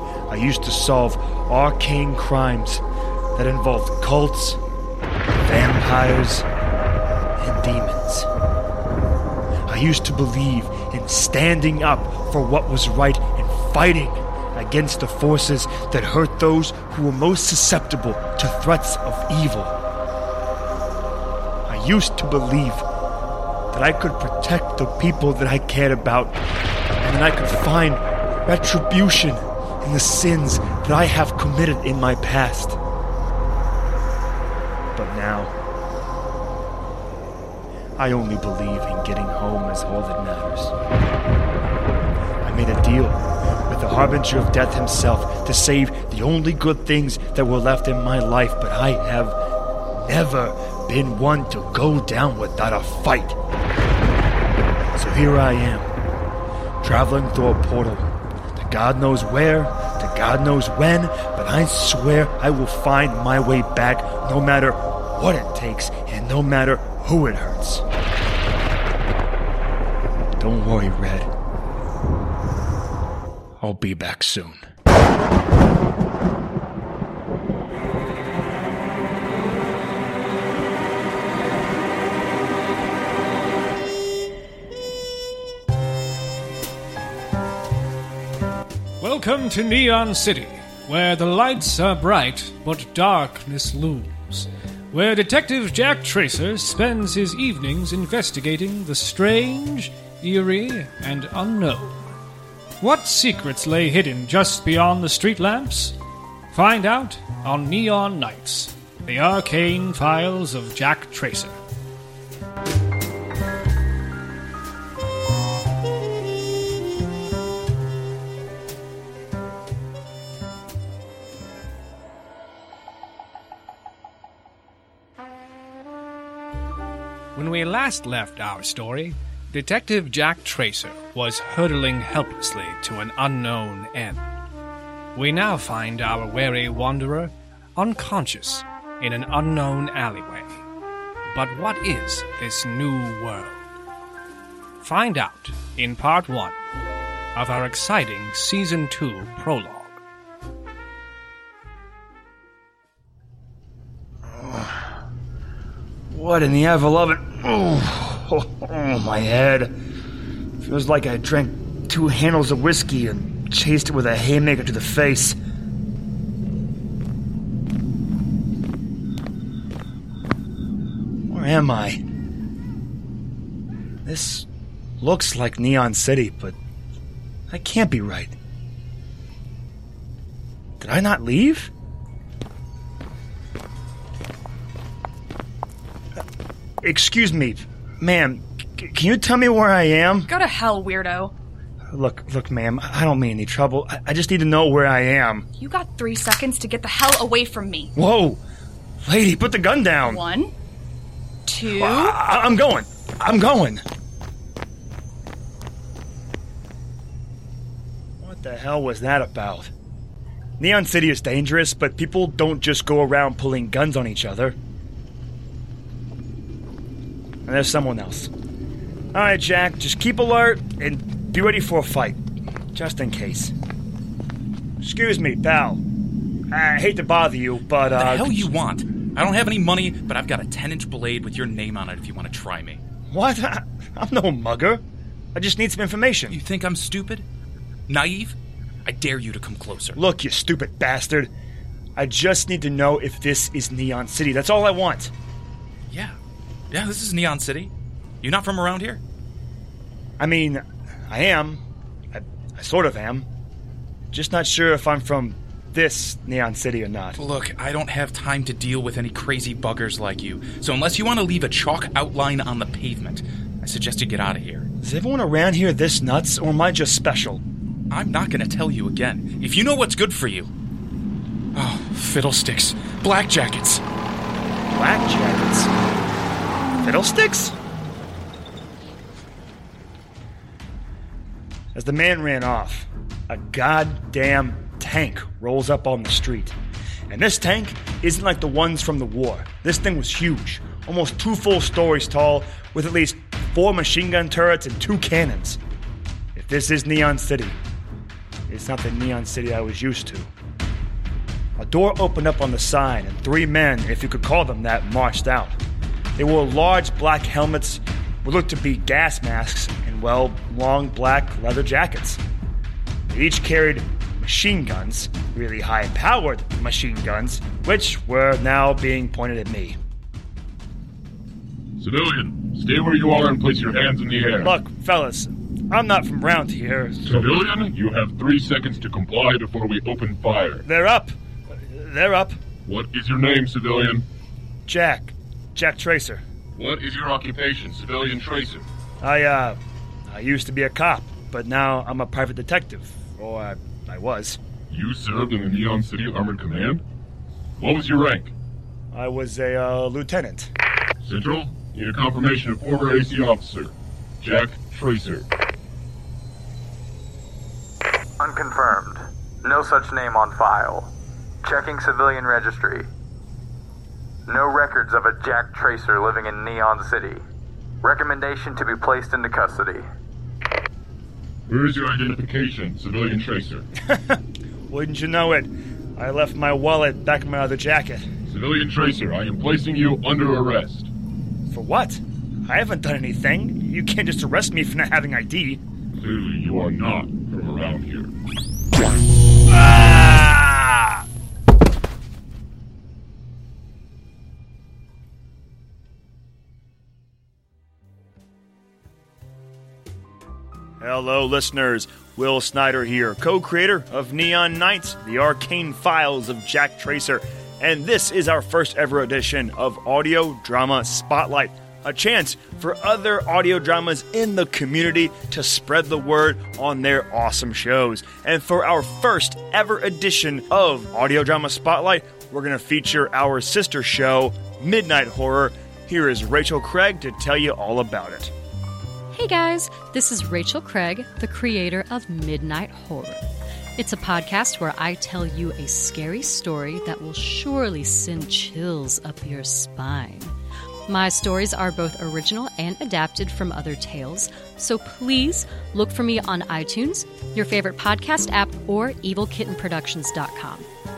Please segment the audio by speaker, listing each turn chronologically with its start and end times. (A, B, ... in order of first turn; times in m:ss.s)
0:00.3-0:02.8 A
0:03.4-0:04.6 A
0:05.4-0:06.5 A
0:07.4-0:08.3 A
0:09.7-0:19.8 A
0:21.7-0:22.8 A
0:23.7-0:26.4 A
0:27.0-0:32.8 A
0:34.9-0:35.5 A
0:38.0-0:40.7 A
0:42.4-0:49.4 A
0:50.0-0:53.4 A
0:54.9-0:55.9 A
0:56.8-1:07.8 A
1:10.4-1:11.3 A
1:13.6-1:14.6 A
1:29.0-1:42.0 B
1:42.8-1:46.0 B
1:46.5-1:51.6 B
2:07.3-2:14.2 B
2:15.1-2:20.6 B
2:21.3-2:23.6 B
2:24.8-2:26.6 B
2:27.4-2:30.0 B
2:34.3-2:35.0 A
2:36.1-2:39.8 A
2:40.6-2:45.4 A
2:51.3-2:52.0 A
2:54.0-2:54.5 A
2:55.0-2:56.6 A
2:57.5-2:58.4 A
3:00.8-3:01.7 A
3:06.8-3:10.3 A
3:10.3-3:11.3 C
3:11.9-3:15.5 A
3:15.6-3:17.9 C
3:18.0-3:18.4 A
3:19.0-3:20.2 A
3:20.0-3:20.5 C
3:21.5-3:22.2 C
3:21.6-3:23.8 A
3:28.2-3:29.7 A
3:30.6-3:34.6 A
3:37.4-3:38.3 A
3:39.1-3:42.2 A
3:42.7-3:43.5 A
3:44.8-3:45.8 A
3:46.5-3:48.5 A
3:47.9-3:52.8 D
3:53.1-3:54.8 A
3:55.3-3:56.4 A
3:56.3-3:57.2 D
3:57.9-4:00.0 D
4:00.0-4:01.3 A
4:02.0-4:05.1 A
4:05.9-4:06.2 D
4:06.7-4:09.0 D
4:10.2-4:13.3 A
4:14.1-4:17.2 A
4:17.2-4:24.7 D
4:24.8-4:27.4 A
4:27.9-4:30.5 D
4:31.5-4:33.8 D
4:34.7-4:35.7 A
4:36.8-4:37.6 A
4:41.7-4:46.6 A
4:47.1-4:55.6 A
4:56.3-4:57.6 A
4:58.5-5:00.3 A
5:01.6-5:05.6 A
5:06.2-5:12.2 A
5:13.1-5:19.8 A
5:21.8-5:24.5 E
5:24.4-5:27.2 A
5:27.0-5:30.6 E
5:30.6-5:32.4 A
5:32.6-5:34.1 E
5:34.7-5:36.2 A
5:36.6-5:38.6 E
5:39.0-5:44.4 A
5:44.7-5:46.8 E
5:47.6-5:48.3 E
5:48.9-5:50.5 A
5:51.0-5:55.2 E
5:58.2-6:00.9 F
6:01.4-6:02.9 F
6:04.3-6:07.2 F
6:07.8-6:09.8 F
6:11.5-6:13.6 E
6:13.8-6:18.1 A
6:18.3-6:20.9 E
6:21.5-6:25.6 A
6:26.0-6:28.1 E
6:29.5-6:31.0 A
6:40.8-7:08.3 A
7:09.1-7:13.2 G
7:13.8-7:20.3 G
7:20.9-7:30.7 G